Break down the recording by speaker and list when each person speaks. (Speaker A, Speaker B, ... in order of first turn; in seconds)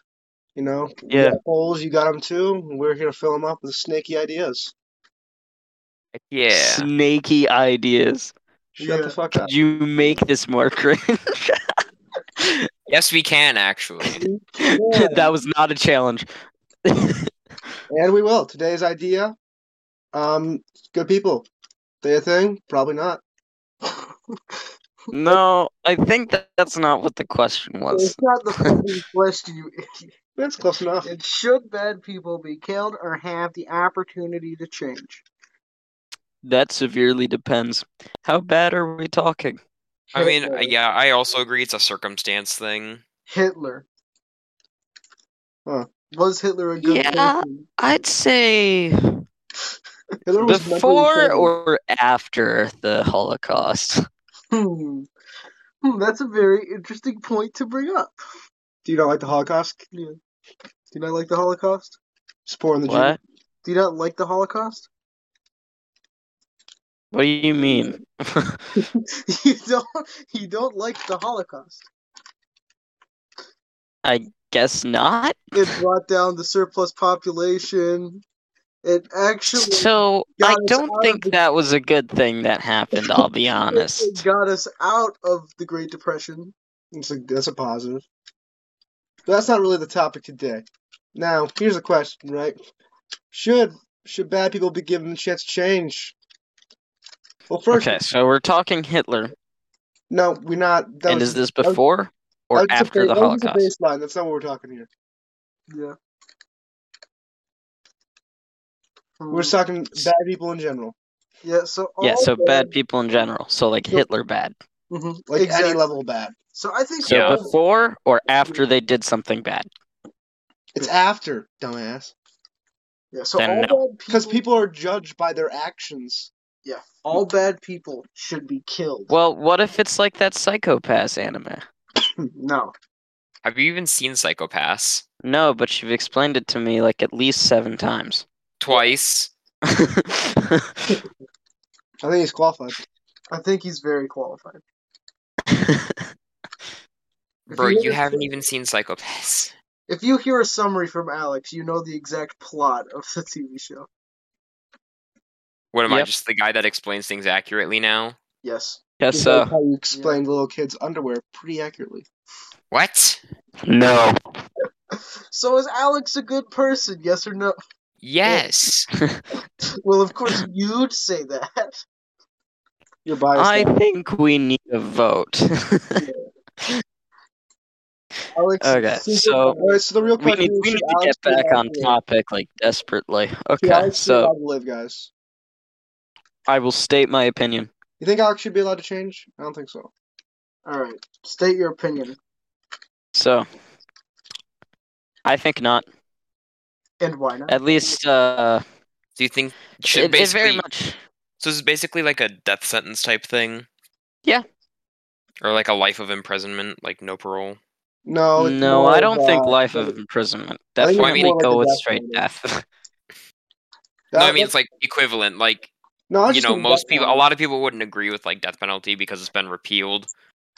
Speaker A: 0.6-4.7, 8.8-9.5, 14.7-15.3, 17.9-19.4, 20.1-21.5, 22.0-23.2, 30.4-31.1, 50.3-51.5, 58.9-59.8, 62.5-63.2, 86.9-88.0, 89.3-92.6, 93.3-96.2, 97.5-98.0, 100.1-101.8, 102.5-104.9, 109.3-111.0, 115.3-116.3, 120.8-122.1, 124.1-126.3, 142.0-142.8, 159.1-162.1, 173.1-173.8, 179.6-182.0, 183.6-185.1, 188.0-189.9, 208.1-210.0, 210.8-212.2, 214.1-214.5, 216.1-217.2
Speaker B: 1.1-1.4, 6.5-8.3, 9.3-11.6, 12.4-12.7, 14.6-16.3, 16.9-17.3, 25.1-28.8, 36.4-39.6, 46.8-49.0, 50.4-54.0, 62.9-63.2, 67.1-68.6, 74.0-75.5, 79.5-84.2, 97.7-99.3, 101.1-103.7, 112.0-114.5, 117.0-119.7, 123.4-123.8, 129.1-131.6, 135.2-138.2, 139.7-140.7, 145.5-146.0, 159.0-159.5, 163.7-164.1, 173.4-176.0, 178.6-179.6, 180.2-184.3, 186.5-187.7, 193.2-193.5, 195.2-195.9, 197.5-198.6, 199.9-201.0, 208.4-212.7
Speaker C: 6.2-6.9, 12.9-14.2, 40.1-43.0, 117.0-117.4, 133.4-135.0, 138.6-139.3, 147.5-149.5, 155.7-158.2, 162.7-163.2, 168.0-168.9, 199.2-200.6, 201.4-203.7, 205.4-207.6, 211.0-211.3, 214.2-215.7, 216.3-220.1
Speaker D: 8.8-9.2, 27.9-30.1, 31.0-35.2, 40.1-40.7, 43.3-43.9, 46.1-47.7, 54.5-55.1, 55.8-58.2, 59.9-60.2, 60.9-62.0, 63.6-64.9, 67.5-68.0, 68.8-71.9, 75.5-78.2, 78.8-81.4, 83.7-86.5, 105.7-106.0, 109.2-109.5, 111.4-112.7, 114.9-115.8, 116.5-117.5, 123.1-124.4, 126.6-129.1, 132.3-132.7, 143.3-144.6, 147.5-148.3, 149.9-153.9, 158.4-158.8, 159.9-160.2, 165.3-167.6, 169.8-171.8, 176.0-176.3, 178.3-180.2, 190.7-192.2, 197.0-197.6